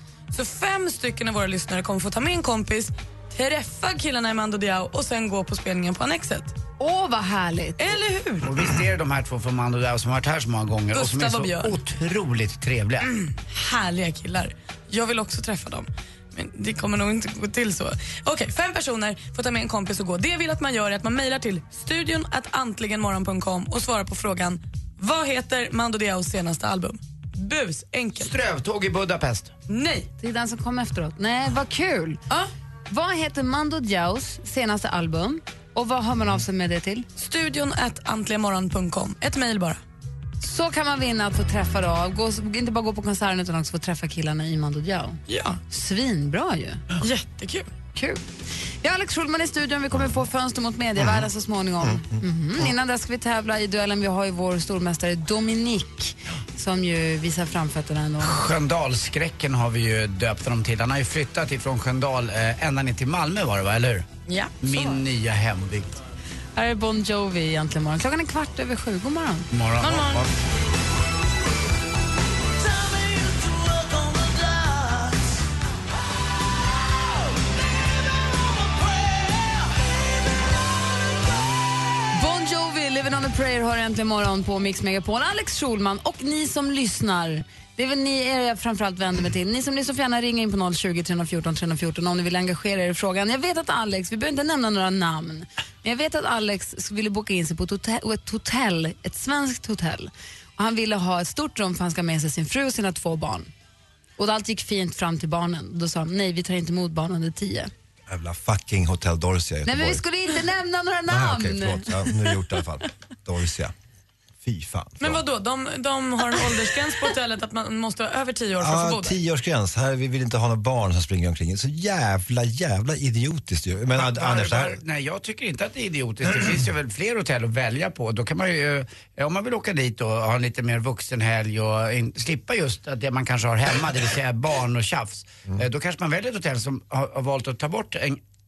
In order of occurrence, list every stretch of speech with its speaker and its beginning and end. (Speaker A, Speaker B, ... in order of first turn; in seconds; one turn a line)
Speaker A: 0.3-6.5
Speaker B: 6.8-7.8
Speaker A: 7.8-8.7
Speaker C: 8.4-13.1
Speaker A: 10.9-11.8
Speaker A: 13.0-28.4
Speaker C: 28.2-29.5
Speaker A: 29.7-30.1
Speaker B: 30.2-32.2
Speaker B: 32.9-37.1
Speaker A: 37.2-39.8
Speaker B: 40.4-46.8
Speaker A: 45.3-45.6
Speaker A: 47.0-47.7
Speaker B: 48.0-48.2
Speaker B: 48.8-58.4
Speaker D: 49.9-50.2
Speaker D: 51.0-51.3
Speaker D: 51.8-52.7
Speaker C: 58.2-64.1
Speaker A: 64.3-65.0
Speaker C: 64.6-66.0
Speaker B: 66.6-69.5
Speaker C: 69.5-70.3
Speaker A: 69.8-70.2
Speaker B: 82.1-103.5
Speaker B: 104.2-107.7
Speaker D: 108.1-110.0
Speaker B: 109.7-112.3
Speaker D: 111.1-113.7
Speaker D: 114.4-115.2
Speaker A: 115.0-119.2
Speaker D: 118.6-124.8
Speaker C: 123.9-138.2